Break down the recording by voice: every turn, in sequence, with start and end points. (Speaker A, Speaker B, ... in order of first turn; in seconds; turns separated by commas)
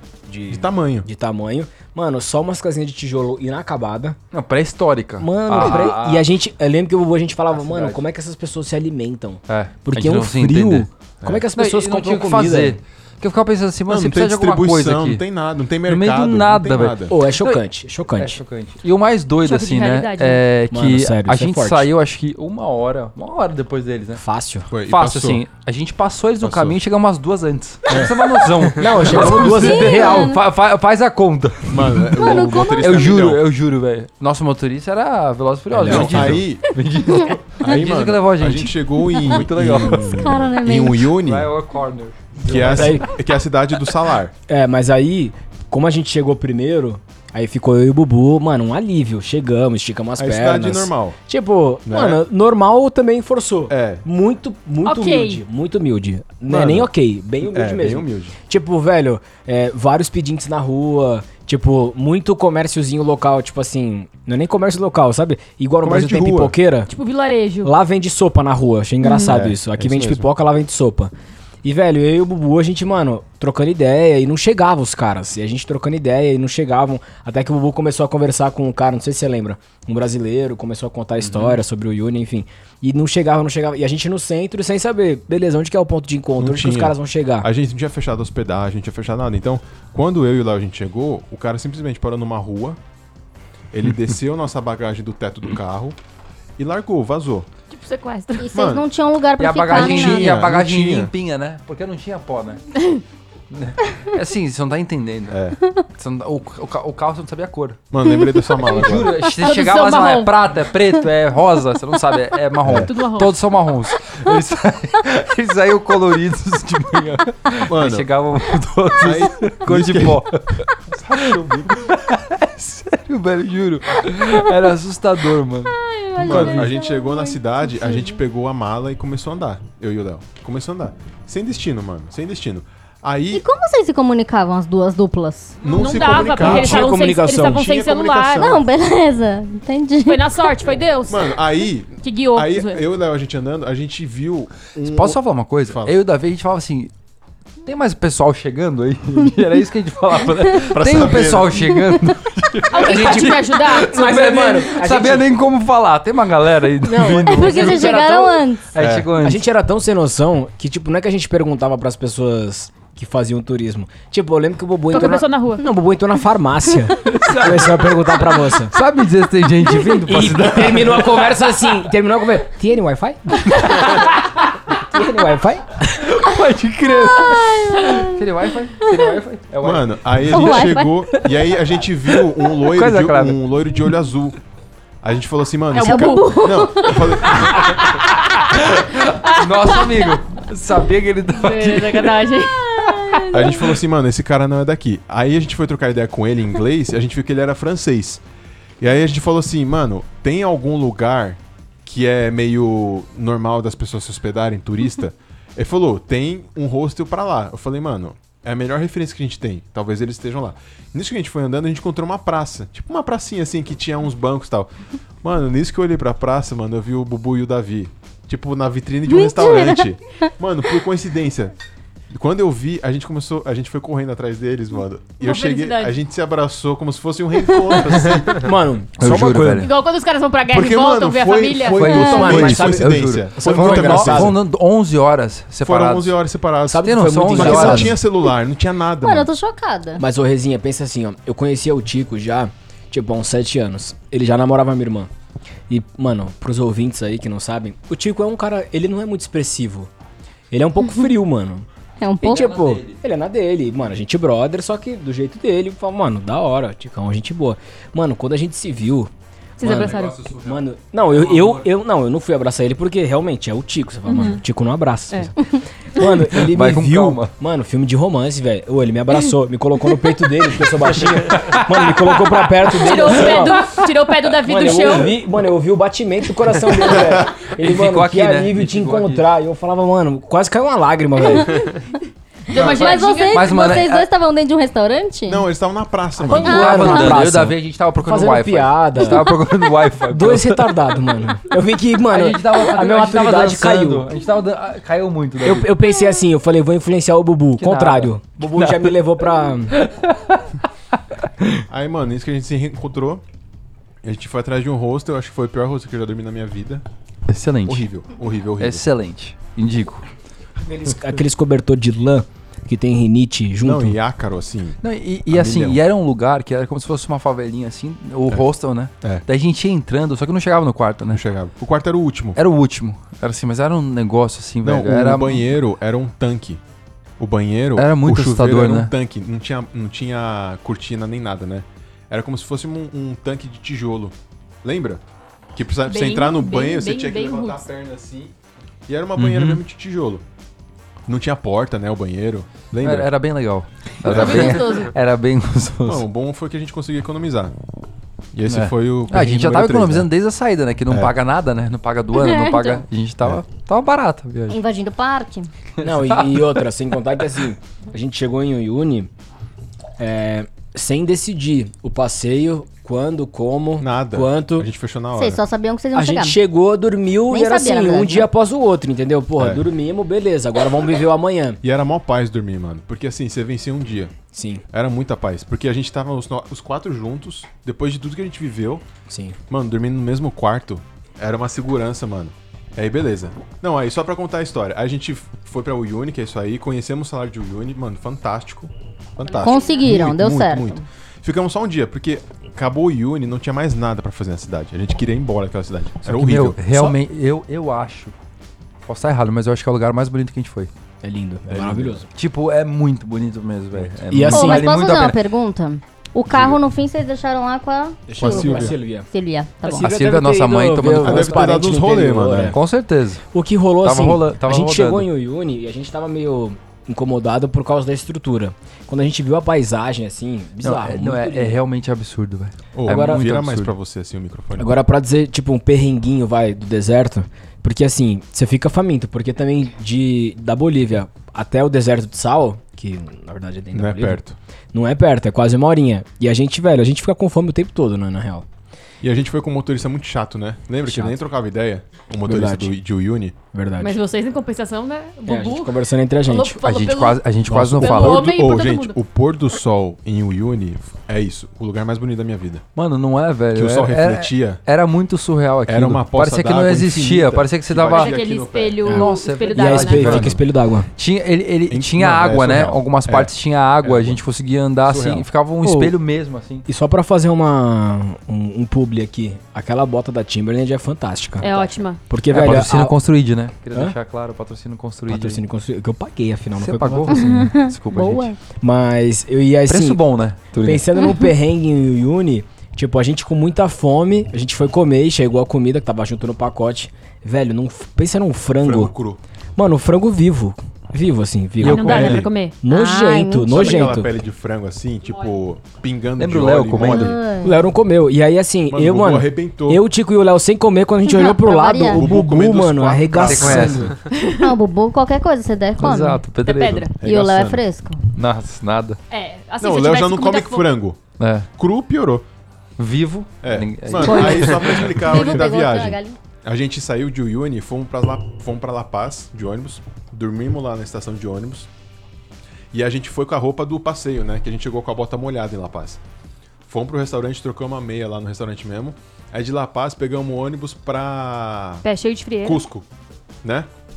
Speaker A: 0.3-4.2, Speaker B: 0.5-1.1, Speaker C: 4.3-6.2, Speaker A: 5.2-12.8, Speaker B: 5.6-5.8, Speaker C: 7.5-8.0, Speaker C: 9.5-10.9, Speaker C: 11.5-15.2, Speaker B: 13.9-17.1, Speaker C: 15.9-17.6, Speaker A: 17.1-18.4, Speaker C: 18.1-24.2, Speaker D: 19.4-20.4, Speaker A: 20.7-21.9, Speaker A: 24.2-24.7, Speaker B: 24.7-25.4, Speaker C: 24.9-40.4, Speaker B: 26.4-26.8, Speaker A: 28.8-30.3, Speaker E: 29.3-30.4, Speaker B: 31.7-33.4, Speaker E: 32.1-33.1, Speaker A: 35.8-36.3, Speaker B: 35.8-36.8, Speaker B: 37.6-41.5, Speaker E: 40.1-41.1, Speaker C: 41.2-43.0, Speaker B: 42.4-44.3, Speaker A: 42.5-43.0, Speaker A: 44.5-66.9, Speaker B: 50.2-51.2, Speaker B: 51.9-52.2, Speaker B: 53.7-54.0, Speaker D: 54.8-55.4, Speaker B: 56.5-56.9, Speaker B: 57.4-58.4, Speaker B: 65.8-66.5, Speaker D: 66.9-67.7, Speaker A: 67.6-71.1, Speaker B: 69.2-70.3, Speaker A: 71.6-87.5, Speaker C: 81.2-81.5, Speaker B: 86.4-92.8, Speaker B: 93.7-96.0, Speaker B: 96.6-97.5, Speaker D: 97.7-98.5, Speaker E: 98.4-100.4, Speaker B: 98.5-98.8, Speaker C: 99.4-102.6, Speaker B: 99.7-101.1, Speaker C: 103.5-105.4, Speaker B: 105.3-105.6, Speaker C: 106.0-107.8, Speaker B: 107.9-109.2, Speaker C: 108.7-126.7, Speaker D: 109.3-110.3, Speaker B: 112.6-112.9, Speaker D: 112.8-113.3, Speaker B: 117.7-118.1, Speaker B: 119.0-120.3, Speaker B: 121.1-121.6, Speaker E: 125.7-128.1, Speaker B: 126.2-133.4, Speaker E: 133.3-135.8, Speaker B: 135.6-138.7, Speaker D: 135.6-138.6, Speaker A: 136.3-137.6, Speaker E: 138.3-140.6, Speaker D: 140.0-141.4, Speaker B: 141.1-145.9, Speaker D: 142.0-142.8, Speaker C: 144.8-146.9, Speaker C: 147.6-158.1, Speaker B: 150.6-151.8, Speaker D: 152.7-154.1, Speaker A: 152.8-155.3, Speaker A: 156.8-158.4, Speaker E: 157.2-158.7, Speaker C: 158.7-159.4, Speaker B: 158.8-159.1, Speaker A: 159.2-168.7, Speaker D: 164.9-165.6, Speaker C: 167.0-171.8, Speaker A: 169.9-174.0, Speaker C: 173.5-174.1, Speaker A: 174.8-175.8, Speaker C: 175.9-181.4, Speaker E: 177.1-178.2, Speaker B: 179.6-184.4, Speaker E: 180.3-180.9, Speaker C: 182.1-183.4, Speaker B: 185.0-187.7, Speaker D: 185.7-188.4, Speaker E: 185.8-186.9, Speaker C: 188.5-192.4, Speaker D: 189.5-190.2, Speaker D: 191.3-192.7, Speaker E: 192.8-193.6, Speaker B: 193.3-198.2, Speaker B: 198.8-214.7, Speaker B: 215.2-221.5, Speaker E: 219.1-219.9, Speaker B: 222.1-228.3, Speaker D: 225.2-226.0, Speaker A: 228.3-229.7, Speaker C: 229.0-229.7, Speaker D: 229.6-232.2, Speaker B: 230.5-234.4, Speaker C: 231.7-236.2, Speaker A: 232.0-234.3, Speaker B: 235.6-239.3, Speaker A: 236.7-238.0, Speaker C: 236.8-238.0, Speaker E: 239.0-240.0, Speaker A: 240.0-245.1, Speaker A: 245.7-249.9, Speaker A: 250.5-251.6, Speaker E: 252.0-252.5, Speaker A: 252.2-259.1, Speaker C: 252.2-253.0, Speaker D: 259.6-260.2, Speaker C: 259.6-261.7, Speaker A: 259.6-273.7, Speaker D: 264.1-264.4, Speaker C: 266.3-267.3, Speaker C: 270.8-272.4, Speaker D: 272.6-275.2, Speaker A: 274.4-281.6, Speaker C: 276.9-279.3, Speaker D: 282.5-283.5, Speaker E: 282.5-285.5, Speaker B: 282.5-282.9, Speaker C: 283.3-284.1, Speaker B: 285.3-286.6, Speaker A: 286.2-289.4, Speaker C: 286.4-291.1, Speaker E: 286.4-287.2, Speaker A: 290.1-294.1, Speaker C: 292.1-295.7, Speaker A: 295.4-299.8, Speaker C: 297.6-299.0, Speaker C: 299.7-300.4, Speaker B: 301.7-303.2, Speaker B: 304.0-306.8, Speaker C: 307.3-307.9, Speaker B: 307.6-308.8, Speaker C: 308.6-310.0, Speaker A: 310.6-314.0, Speaker B: 313.6-315.8, Speaker C: 314.8-321.2, Speaker B: 321.1-322.4, Speaker C: 322.4-325.5, Speaker B: 324.6-326.6, Speaker B: 327.2-335.0, Speaker C: 327.8-328.9, Speaker B: 335.5-338.3, Speaker D: 335.9-337.6, Speaker B: 338.9-340.2, Speaker C: 339.2-339.6, Speaker B: 341.1-343.1, Speaker C: 342.8-346.0, Speaker B: 344.0-344.6, Speaker D: 344.0-344.9, Speaker B: 345.8-347.5, Speaker B: 348.3-350.1, Speaker C: 348.5-354.6, Speaker E: 352.1-352.8, Speaker E: 354.5-355.5, Speaker A: 355.8-359.1, Speaker C: 355.8-356.6, Speaker A: 360.0-364.7, Speaker B: 363.8-365.4, Speaker E: 365.1-366.4, Speaker A: 365.9-371.6, Speaker E: 367.3-368.3, Speaker B: 369.4-369.6, Speaker B: 371.6-374.1, Speaker A: 374.3-374.6, Speaker B: 374.7-378.8, Speaker A: 379.1-379.4, Speaker B: 379.5-396.6, Speaker D: 389.2-389.9, Speaker E: 389.4-390.8, Speaker C: 396.0-398.1, Speaker C: 398.9-400.7, Speaker A: 401.0-402.1, Speaker B: 401.5-402.0, Speaker C: 402.1-405.2, Speaker A: 404.1-404.7, Speaker E: 404.3-409.9, Speaker B: 406.3-406.6, Speaker A: 408.1-409.1, Speaker B: 408.2-408.8, Speaker A: 409.6-412.6, Speaker C: 409.7-411.5, Speaker B: 411.0-412.6, Speaker C: 412.5-413.3, Speaker A: 413.3-421.6, Speaker C: 413.8-415.1, Speaker C: 420.6-423.7, Speaker B: 422.7-424.8, Speaker A: 422.9-423.2, Speaker A: 424.6-434.2, Speaker B: 433.7-434.4, Speaker A: 434.7-438.4, Speaker B: 439.0-443.4, Speaker A: 440.9-441.2, Speaker A: 442.2-442.8, Speaker A: 443.5-444.0, Speaker D: 443.8-449.0, Speaker A: 445.2-446.6, Speaker C: 446.6-448.3, Speaker B: 447.5-452.6, Speaker C: 452.8-458.2, Speaker B: 453.5-454.6, Speaker B: 455.7-458.8, Speaker D: 457.8-460.2, Speaker A: 458.8-460.9, Speaker C: 458.9-460.4, Speaker B: 459.9-460.4, Speaker C: 460.9-466.6, Speaker B: 461.7-464.2, Speaker B: 464.8-465.3, Speaker A: 465.6-465.9, Speaker A: 466.6-472.9, Speaker D: 471.4-472.0, Speaker C: 472.3-475.4, Speaker A: 475.1-477.5, Speaker C: 476.6-478.3, Speaker E: 477.1-478.4, Speaker A: 478.6-480.0, Speaker C: 479.7-480.9, Speaker A: 480.6-488.9, Speaker B: 488.6-489.2, Speaker A: 489.6-494.1, Speaker C: 491.6-492.2, Speaker D: 491.6-492.6, Speaker B: 491.7-492.3, Speaker E: 492.7-493.9, Speaker B: 493.4-497.2, Speaker C: 496.2-497.2, Speaker E: 496.8-497.6, Speaker A: 497.4-503.9, Speaker B: 498.7-499.8, Speaker E: 501.0-502.0, Speaker B: 501.9-503.9, Speaker C: 503.2-503.9, Speaker D: 504.1-504.5, Speaker E: 504.4-506.2, Speaker C: 505.8-506.9, Speaker D: 506.4-507.0, Speaker B: 507.0-507.6, Speaker E: 507.0-508.0, Speaker C: 508.1-509.0, Speaker D: 509.1-510.7, Speaker B: 509.6-511.0, Speaker C: 511.2-511.5, Speaker B: 511.6-512.2, Speaker C: 512.8-515.4, Speaker B: 513.4-521.7, Speaker E: 514.0-516.2, Speaker B: 522.7-526.0, Speaker B: 526.6-531.8, Speaker D: 531.8-532.6, Speaker B: 532.4-532.9, Speaker B: 533.4-533.7